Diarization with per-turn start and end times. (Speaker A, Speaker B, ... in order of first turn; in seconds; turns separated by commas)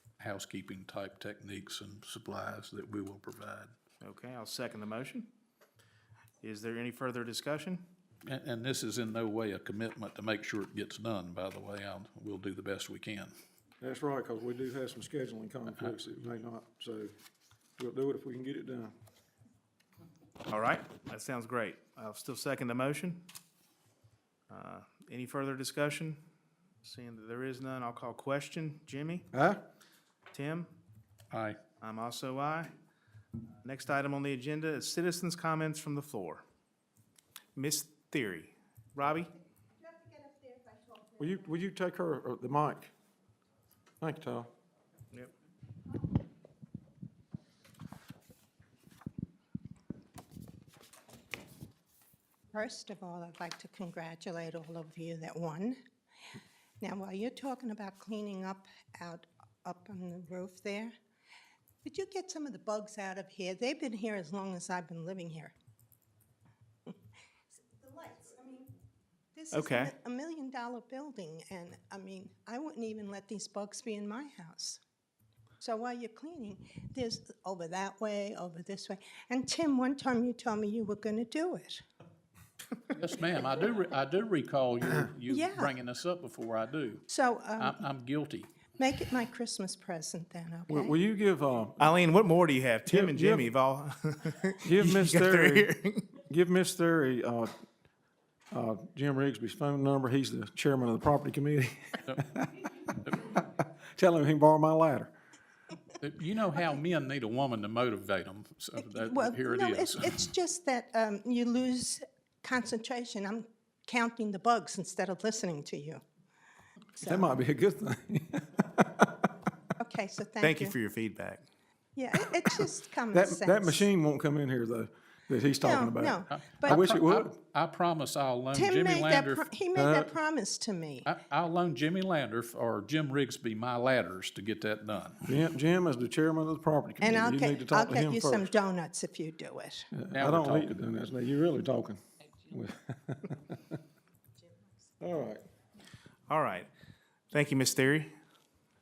Speaker A: 0.2-3.7, Speaker B: 4.0-5.3, Speaker B: 6.4-7.9, Speaker A: 8.2-13.3, Speaker C: 13.8-17.1, Speaker C: 17.8-18.9, Speaker B: 20.5-23.2, Speaker B: 24.5-26.2, Speaker B: 26.8-29.3, Speaker C: 29.3-29.6, Speaker B: 30.3-30.7, Speaker A: 31.3-31.6, Speaker B: 31.8-32.7, Speaker B: 33.6-36.4, Speaker B: 37.5-39.3, Speaker D: 39.8-41.2, Speaker C: 41.2-42.9, Speaker C: 44.0-44.5, Speaker D: 52.5-55.8, Speaker D: 56.8-60.9, Speaker D: 61.8-65.5, Speaker D: 67.7-68.7, Speaker D: 69.3-74.8, Speaker B: 69.5-69.9, Speaker D: 75.6-81.8, Speaker A: 82.9-88.6, Speaker D: 85.3-85.7, Speaker D: 87.1-87.8, Speaker D: 88.8-90.9, Speaker C: 90.7-91.9, Speaker B: 91.8-96.1, Speaker C: 92.9-93.5, Speaker C: 94.6-97.5, Speaker C: 98.5-102.5, Speaker C: 103.2-105.1, Speaker A: 106.0-110.3, Speaker D: 108.9-116.0, Speaker D: 117.0-117.2, Speaker C: 117.0-119.3, Speaker D: 119.8-120.8, Speaker B: 120.4-121.4, Speaker D: 121.9-123.9, Speaker C: 123.1-127.4, Speaker D: 125.6-126.8, Speaker A: 126.3-129.4, Speaker D: 128.5-131.1, Speaker C: 129.7-130.1, Speaker A: 131.0-135.3, Speaker C: 135.3-138.5, Speaker D: 137.0-139.9, Speaker C: 139.9-143.8, Speaker A: 140.1-140.8, Speaker C: 145.0-145.4, Speaker B: 146.3-146.7, Speaker B: 147.3-148.1